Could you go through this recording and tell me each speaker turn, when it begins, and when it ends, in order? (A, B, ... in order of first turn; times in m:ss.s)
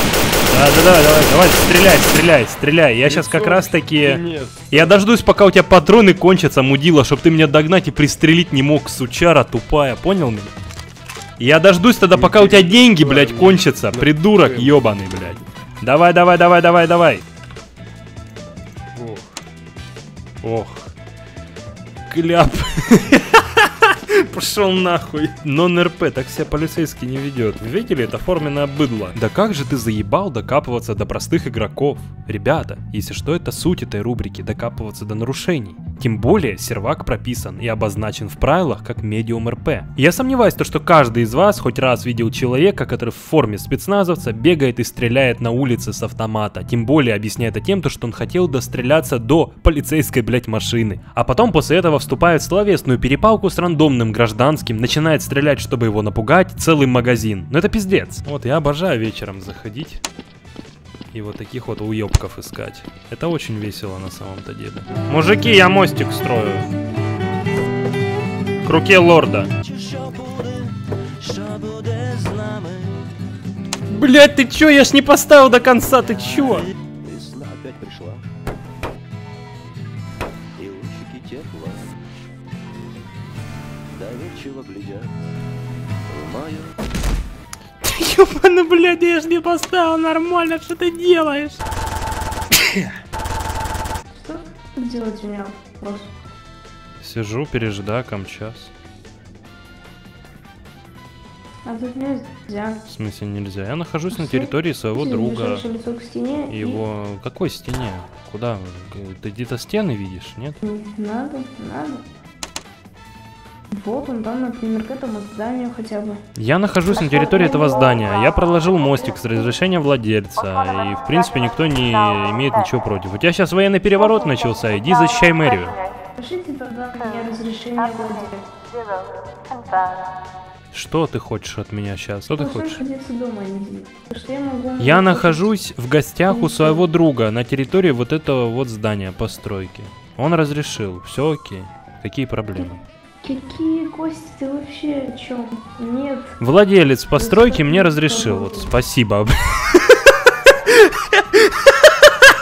0:00.5-0:10.5 A
0:03.0-0:05.0 B
0:11.4-0:17.2 A
0:12.1-0:15.4 B
0:18.9-0:19.3 B
0:20.4-0:20.9 A
0:22.1-1:00.0 A
1:01.1-1:06.7 A
1:08.6-1:09.5 A
1:09.6-1:13.0 C
1:13.9-1:16.7 A
1:17.0-1:18.2 C
1:20.6-1:21.9 C
1:24.0-1:25.2 C
1:26.1-1:26.7 C
1:27.8-1:31.6 A
1:32.6-1:32.9 A
1:34.1-1:36.1 D
1:37.0-1:38.7 A
1:41.6-1:42.8 D
1:42.9-1:45.6 A
1:44.1-1:46.8 D
1:46.5-1:50.6 A
1:50.6-1:52.0 D
1:53.8-1:56.2 D
1:56.4-2:05.8 A
1:56.8-1:59.5 D
2:06.2-2:08.5 D
2:10.7-2:12.8 A
2:12.3-2:15.5 D
2:14.8-2:22.8 A
2:16.3-2:16.9 D
2:22.6-2:26.4 D
2:26.4-2:30.0 A
2:27.1-2:28.7 D
2:30.7-2:31.5 A